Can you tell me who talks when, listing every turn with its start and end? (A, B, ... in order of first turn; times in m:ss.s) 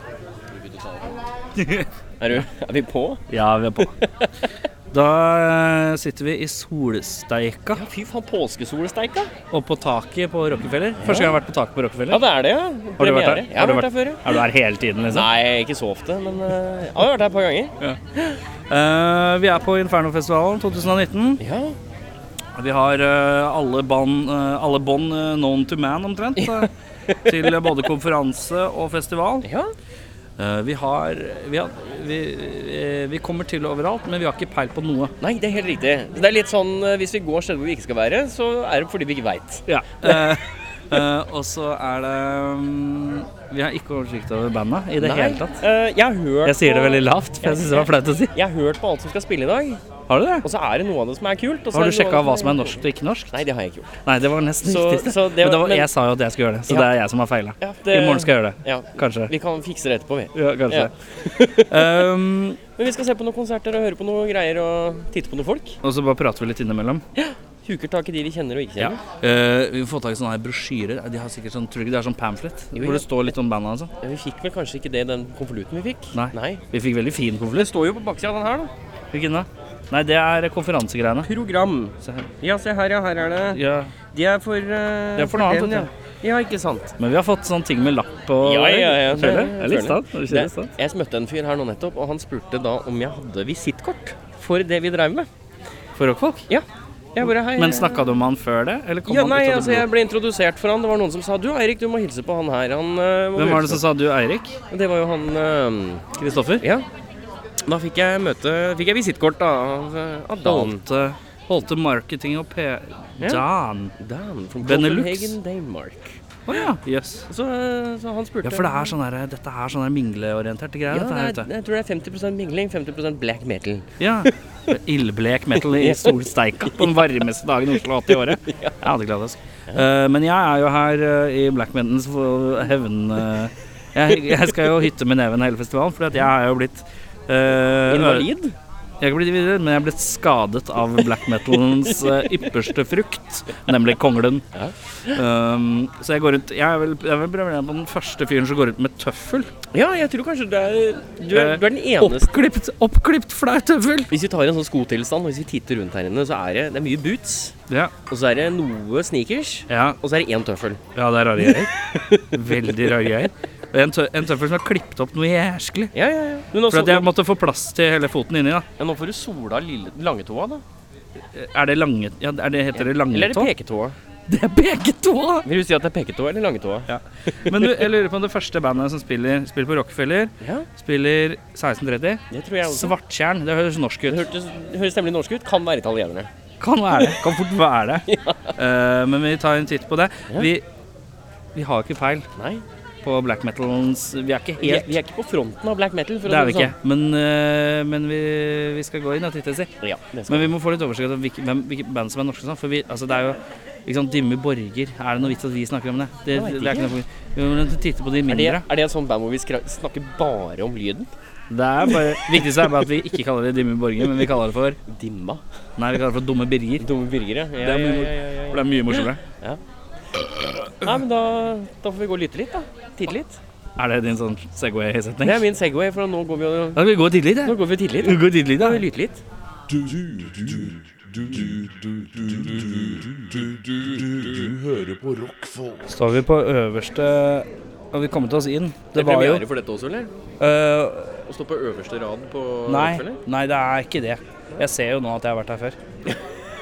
0:00.5-0:01.2 A
0:01.6-0:01.9 B
0:02.2-0:03.2 A
0:03.3-0:03.9 B
0:03.9-0:04.3 A
0:04.9-0:07.8 B
0:07.7-0:09.3 A
0:09.5-0:12.2 B
0:11.0-0:11.4 A
0:12.1-0:14.4 A
0:13.0-0:15.3 B
0:15.1-0:18.4 A
0:18.7-0:21.4 B
0:21.4-0:21.8 A
0:22.6-0:26.7 B
0:26.4-0:26.7 A
0:27.2-0:29.5 B
0:27.3-0:27.5 A
0:29.4-0:29.7 A
0:30.4-0:35.1 B
0:35.2-0:40.3 A
0:39.7-0:45.6 B
0:45.0-0:49.8 A
0:46.4-0:48.3 B
0:50.1-0:50.4 B
0:50.4-0:53.9 A
0:51.7-0:53.4 B
0:54.0-0:59.3 B
0:54.6-0:55.9 A
0:57.6-1:02.1 A
1:00.3-1:00.9 B
1:01.6-1:02.6 B
1:02.8-1:05.8 A
1:05.8-1:07.0 B
1:07.2-1:09.0 A
1:08.8-1:13.9 B
1:12.7-1:13.3 A
1:14.0-1:16.6 A
1:16.1-1:17.7 B
1:17.5-1:18.7 A
1:19.1-1:21.3 B
1:21.2-1:23.6 A
1:23.5-1:23.9 B
1:24.1-1:26.9 A
1:25.2-1:25.9 B
1:27.0-1:30.7 B
1:28.4-1:35.3 A
1:36.0-1:36.4 B
1:36.5-1:38.2 A
1:37.2-1:39.9 B
1:39.1-1:43.9 A
1:43.4-1:44.6 B
1:44.7-1:46.0 A
1:46.2-1:46.6 B
1:47.6-1:50.8 A
1:50.4-1:53.9 B
1:54.0-1:56.6 A
1:54.6-1:55.3 B
1:56.5-1:57.3 B
1:57.3-1:58.9 A
1:58.4-2:01.5 B
2:00.9-2:03.9 A
2:04.0-2:18.3 B
2:05.7-2:06.2 A
2:08.1-2:08.7 A
2:17.9-2:18.5 A
2:19.0-2:24.4 B
2:25.1-2:29.5 B
2:29.7-2:32.4 A
2:31.3-2:34.1 B
2:34.1-2:37.5 A
2:38.1-2:40.8 A
2:39.7-2:40.0 B
2:40.9-2:41.7 B
2:41.4-2:43.0 A
2:42.3-2:45.9 B
2:45.9-2:47.1 A
2:46.7-2:48.6 B
2:48.8-2:50.6 A
2:51.3-2:53.5 B
2:52.7-2:53.9 A
2:54.3-2:55.5 B
2:55.4-2:56.9 A
2:56.9-3:04.2 B
2:57.4-2:57.8 A
3:02.3-3:02.9 A
3:04.1-3:06.3 A
3:06.6-3:10.6 B
3:08.1-3:08.4 A
3:11.5-3:12.2 B
3:12.4-3:12.6 A
3:13.0-3:14.9 B
3:14.6-3:16.7 A
3:16.2-3:19.7 B
3:19.8-3:20.5 A
3:20.3-3:28.6 B
3:26.3-3:26.9 A
3:28.3-3:31.1 A
3:31.5-3:34.8 B
3:32.3-3:32.6 A
3:34.9-3:35.4 A
3:35.8-3:36.9 B
3:36.8-3:39.6 A
3:37.6-3:39.2 B
3:40.8-3:43.4 A
3:43.8-3:45.4 B
3:45.2-3:46.9 A
3:46.7-3:48.8 B
3:47.4-3:49.2 A
3:49.7-3:55.8 C
3:55.9-3:59.4 B
3:58.9-4:00.1 A
4:00.4-4:01.2 B
4:01.3-4:03.2 A
4:02.7-4:05.8 B